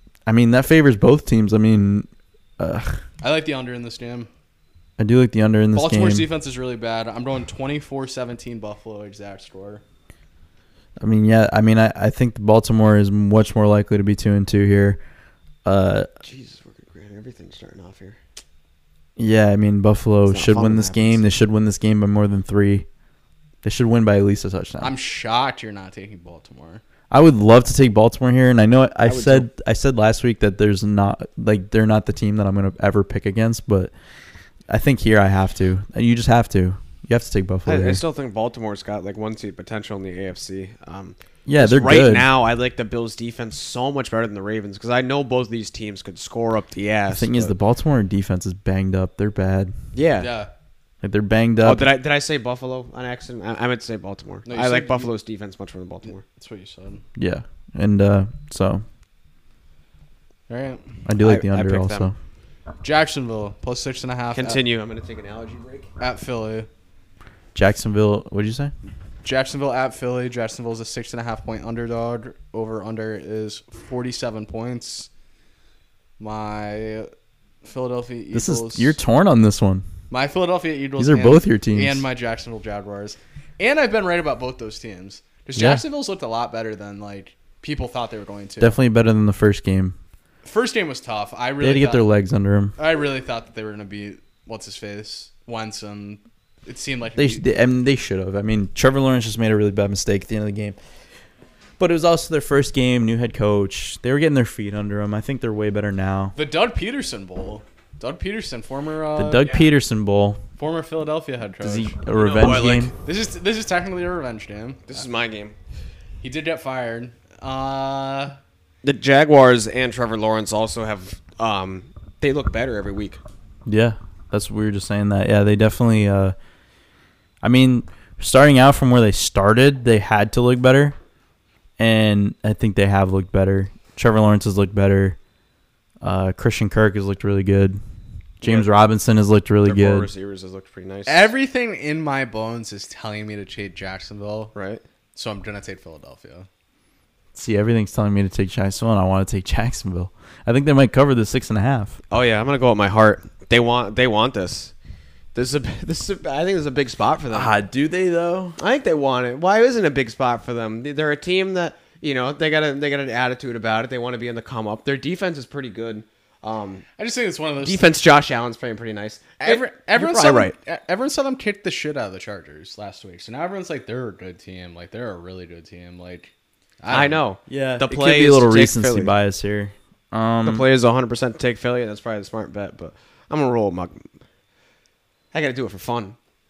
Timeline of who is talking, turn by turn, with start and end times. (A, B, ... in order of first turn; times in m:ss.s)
0:00.3-0:02.1 A
0:02.6-0:03.0 A
0:03.2-0:04.3 B
0:05.0-0:06.3 A
0:05.7-0:09.8 B
0:11.0-0:15.0 A
0:15.6-0:16.1 A
0:16.2-0:18.2 C
0:19.2-0:22.9 A
0:20.3-0:21.2 C
0:23.6-0:24.9 A
0:24.8-0:26.8 B
0:27.1-0:33.9 A
0:29.0-0:29.5 C
0:34.7-0:38.0 A
0:37.7-0:47.5 C
0:41.5-0:42.3 A
0:47.1-0:49.7 A
0:50.0-0:50.3 C
0:50.2-0:50.5 B
0:51.0-0:51.9 A
0:51.6-0:56.2 C
0:54.5-0:55.1 B
0:56.0-0:57.0 B
0:57.2-0:58.8 A
1:00.5-1:00.8 B
1:01.1-1:02.2 A
1:01.2-1:02.1 C
1:02.8-1:04.6 B
1:04.3-1:05.9 C
1:06.0-1:06.7 B
1:07.6-1:08.7 A
1:09.2-1:15.1 B
1:16.2-1:17.1 B
1:17.6-1:19.0 B
1:18.3-1:19.9 A
1:20.1-1:28.8 B
1:21.0-1:22.0 A
1:25.6-1:25.8 A
1:28.6-1:30.0 A
1:30.4-1:32.1 B
1:31.6-1:32.8 A
1:32.8-1:37.4 B
1:37.2-1:40.8 A
1:41.8-1:46.4 A
1:46.4-1:49.6 B
1:49.2-1:50.4 A
1:50.6-1:52.0 B
1:51.6-1:52.9 A
1:52.1-1:52.9 C
1:52.9-1:55.0 B
1:54.9-1:55.6 C
1:56.2-1:58.4 B
1:58.8-2:03.2 C
2:03.7-2:06.4 A
2:07.4-2:11.0 A
2:11.8-2:15.2 A
2:16.0-2:17.8 A
2:18.4-2:20.1 A
2:18.4-2:18.7 C
2:19.6-2:21.3 C
2:21.1-2:24.5 B
2:24.6-2:24.8 C
2:25.2-2:26.5 B
2:27.3-2:32.0 A
2:32.1-2:34.7 C
2:35.4-2:37.5 C
2:37.3-2:38.6 A
2:38.6-2:46.9 C
2:47.0-2:47.9 B
2:47.6-2:50.6 C
2:49.4-2:57.2 B
2:56.9-2:59.1 C
2:57.5-3:00.7 A
3:00.4-3:04.1 C
3:05.3-3:06.2 C